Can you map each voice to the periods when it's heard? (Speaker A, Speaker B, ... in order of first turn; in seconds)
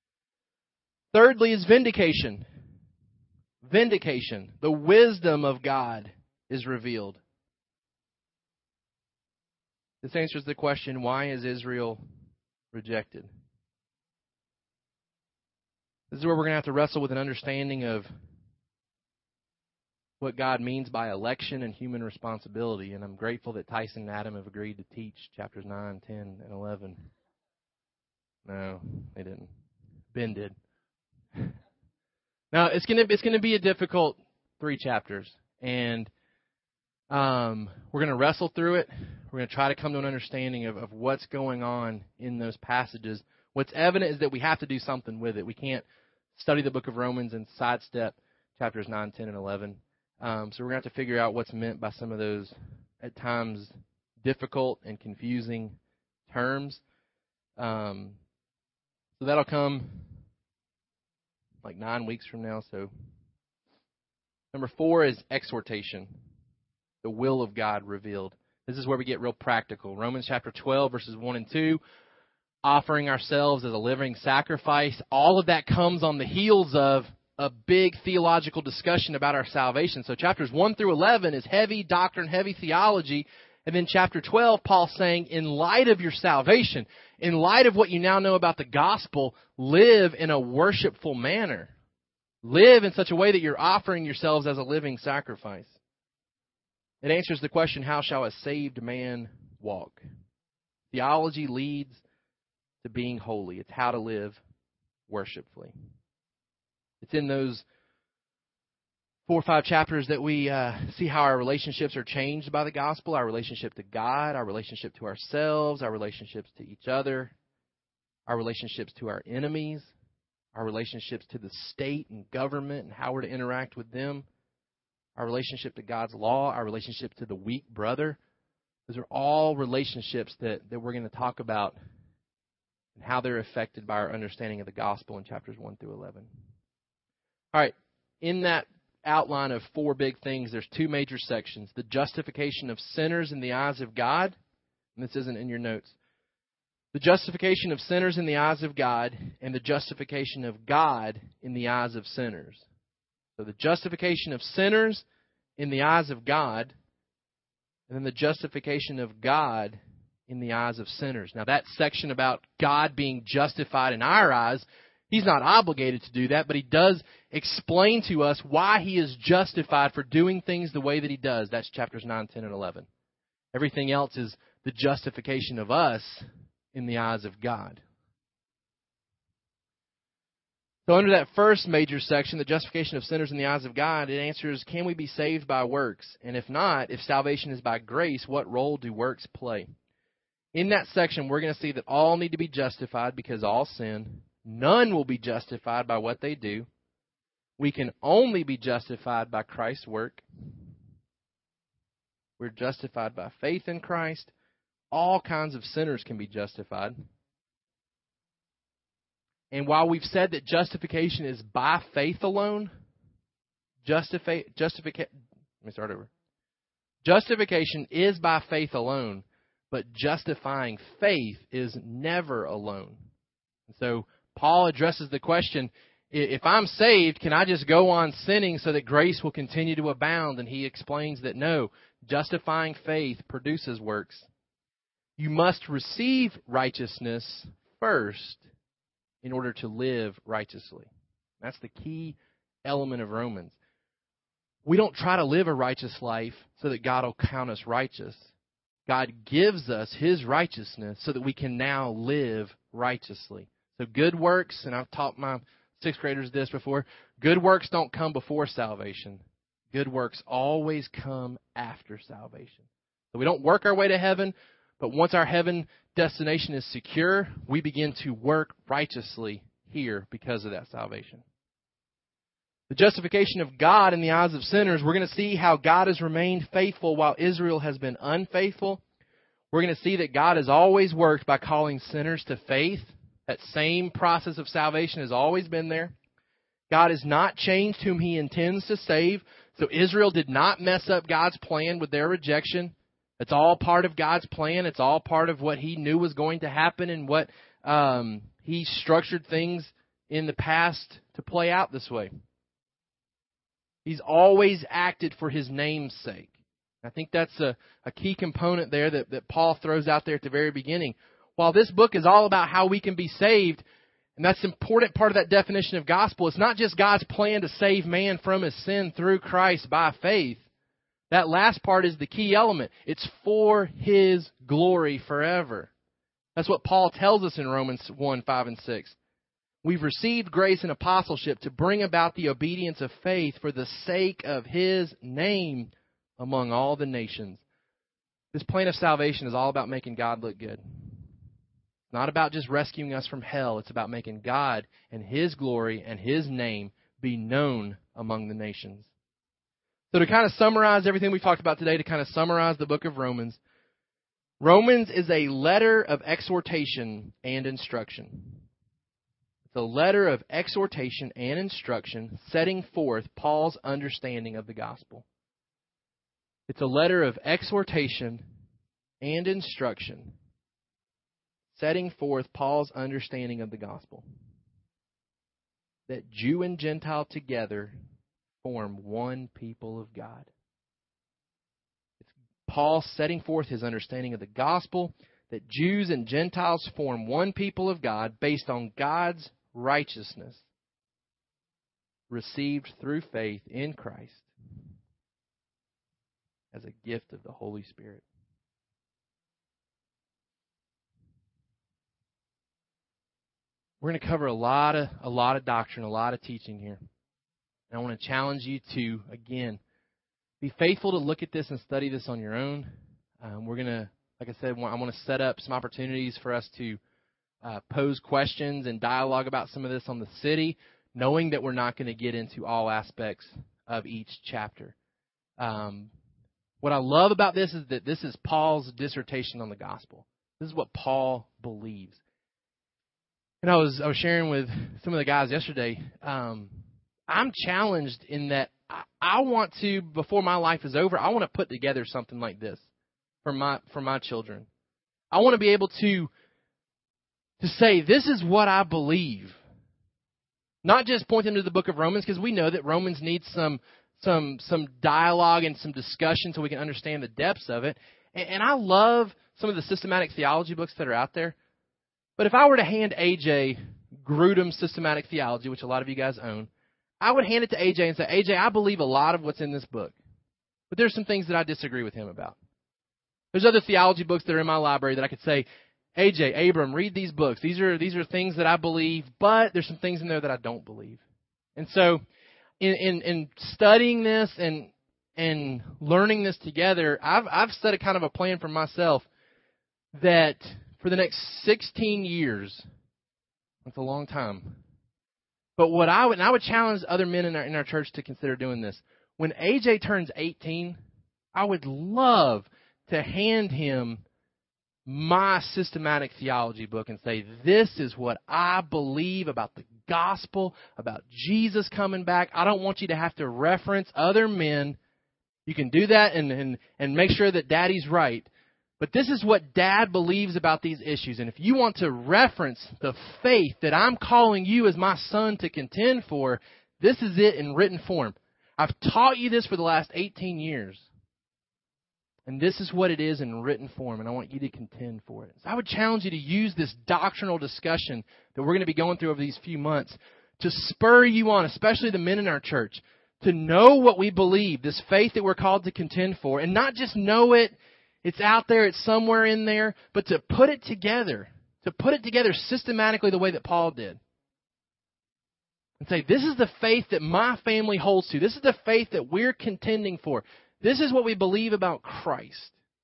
Speaker A: 1.1-2.4, 3.6-7.2, 10.0-12.0, 12.7-13.3, 16.1-18.1, 20.2-27.0, 28.4-29.5, 30.1-30.5, 32.5-36.1, 37.1-56.8, 57.6-58.2, 59.2-60.1, 61.6-62.9, 64.5-66.1, 67.0-71.8, 72.6-91.7, 92.4-95.8, 97.0-100.0, 100.9-102.0, 102.8-104.4, 105.1-105.7, 107.0-107.6, 109.3-117.3, 118.3-119.9, 120.5-124.2, 125.2-128.2, 128.9-131.7, 132.9-136.3, 137.5-144.3, 144.9-145.9, 146.9-152.6, 153.4-155.0, 155.6-156.7, 157.9-172.9, 173.5-177.8, 180.9-189.7, 190.5-196.7, 197.6-200.2, 202.4-204.3, 204.9-207.0, 209.5-212.7, 213.8-216.1, 217.0-223.0, 223.7-234.3, 235.2-238.4, 239.2-240.9, 241.4-243.6, 244.6-248.3, 248.9-271.2, 272.7-278.8, 279.5-285.9, 286.7-302.1, 303.8-313.6, 314.2-320.4, 321.1-325.7, 326.4-328.9, 329.6-337.4, 338.3-340.6, 341.9-348.9, 349.9-353.4, 354.4-358.4, 359.5-365.0, 366.5-368.2, 369.0-370.1, 371.5-374.0, 375.9-377.7, 378.4-380.3, 382.0-390.4, 392.1-394.3, 396.5-398.0, 403.8-406.8, 407.7-409.6, 410.4-416.8, 417.4-424.7, 425.4-425.9, 426.6-432.0, 433.4-436.6, 437.1-442.6, 443.2-444.5, 445.1-446.1, 447.4-449.4, 450.6-461.3, 462.2-466.5, 467.0-470.0, 470.7-472.4, 473.3-481.0, 481.6-482.0, 482.6-489.1, 489.9-492.6, 493.6-494.6, 495.6-500.8, 501.3-504.0, 504.9-514.8, 515.5-518.3, 518.8-530.9, 532.3-554.0, 555.8-562.5